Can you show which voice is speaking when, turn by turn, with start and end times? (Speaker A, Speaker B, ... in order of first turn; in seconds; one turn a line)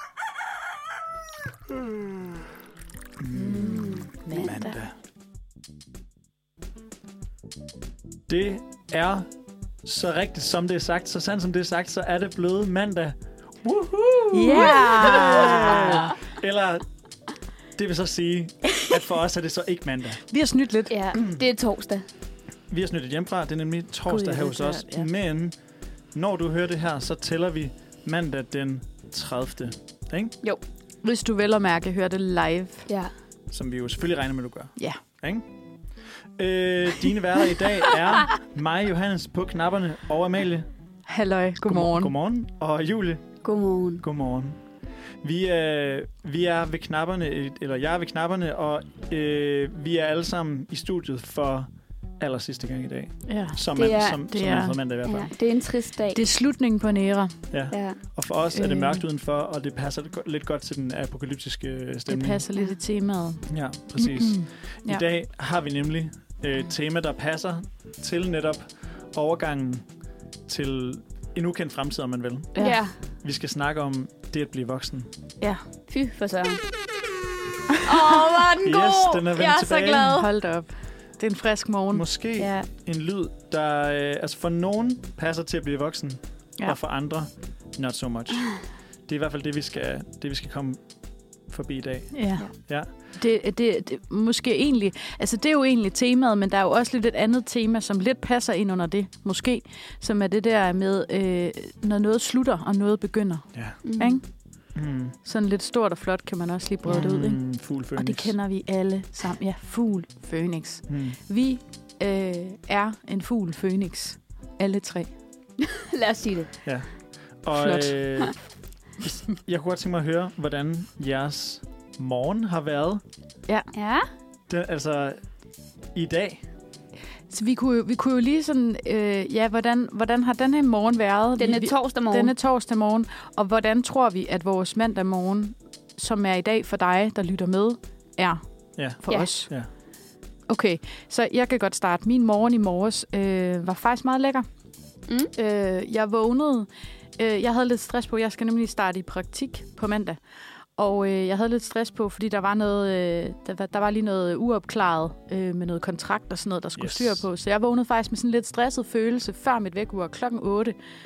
Speaker A: 3.2-4.9
Speaker B: 3.3-4.7
Speaker C: 3.5-4.5
Speaker A: 8.3-9.3
Speaker A: 9.8-16.9
Speaker B: 14.3-16.1
Speaker C: 14.5-15.6
Speaker A: 17.7-20.2
Speaker B: 20.3-20.9
Speaker C: 20.9-22.0
Speaker A: 22.7-25.5
Speaker B: 24.1-25.1
Speaker A: 26.1-30.3
Speaker B: 31.0-32.9
Speaker A: 33.5-35.4
Speaker A: 36.4-40.7
Speaker B: 41.1-42.1
Speaker A: 41.6-43.4
Speaker C: 43.4-44.0
Speaker A: 44.0-44.6
Speaker A: 45.2-55.3
Speaker B: 53.3-54.8
Speaker C: 53.7-54.2
Speaker C: 55.0-56.2
Speaker B: 56.1-57.3
Speaker A: 57.5-62.4
Speaker C: 57.7-58.0
Speaker B: 58.5-59.0
Speaker B: 62.1-65.0
Speaker A: 63.5-69.9
Speaker A: 70.5-72.5
Speaker C: 72.5-72.9
Speaker A: 73.2-75.1
Speaker C: 75.9-76.6
Speaker C: 77.8-80.3
Speaker A: 78.6-80.2
Speaker B: 80.1-82.0
Speaker A: 81.9-90.8
Speaker C: 82.4-82.7
Speaker A: 91.5-92.9
Speaker B: 92.1-92.5
Speaker B: 93.1-104.2
Speaker C: 103.8-104.2
Speaker A: 104.7-105.2
Speaker B: 105.2-115.1
Speaker A: 106.9-108.3
Speaker A: 110.9-111.2
Speaker C: 115.7-116.5
Speaker A: 116.6-116.9
Speaker A: 117.4-118.4
Speaker B: 117.5-118.0
Speaker A: 119.0-123.0
Speaker C: 123.7-124.1
Speaker A: 124.5-125.2
Speaker A: 125.9-126.4
Speaker B: 127.3-139.5
Speaker C: 131.4-132.3
Speaker A: 138.8-139.7
Speaker B: 140.5-144.5
Speaker B: 145.3-150.2
Speaker B: 150.8-160.7
Speaker A: 156.8-157.2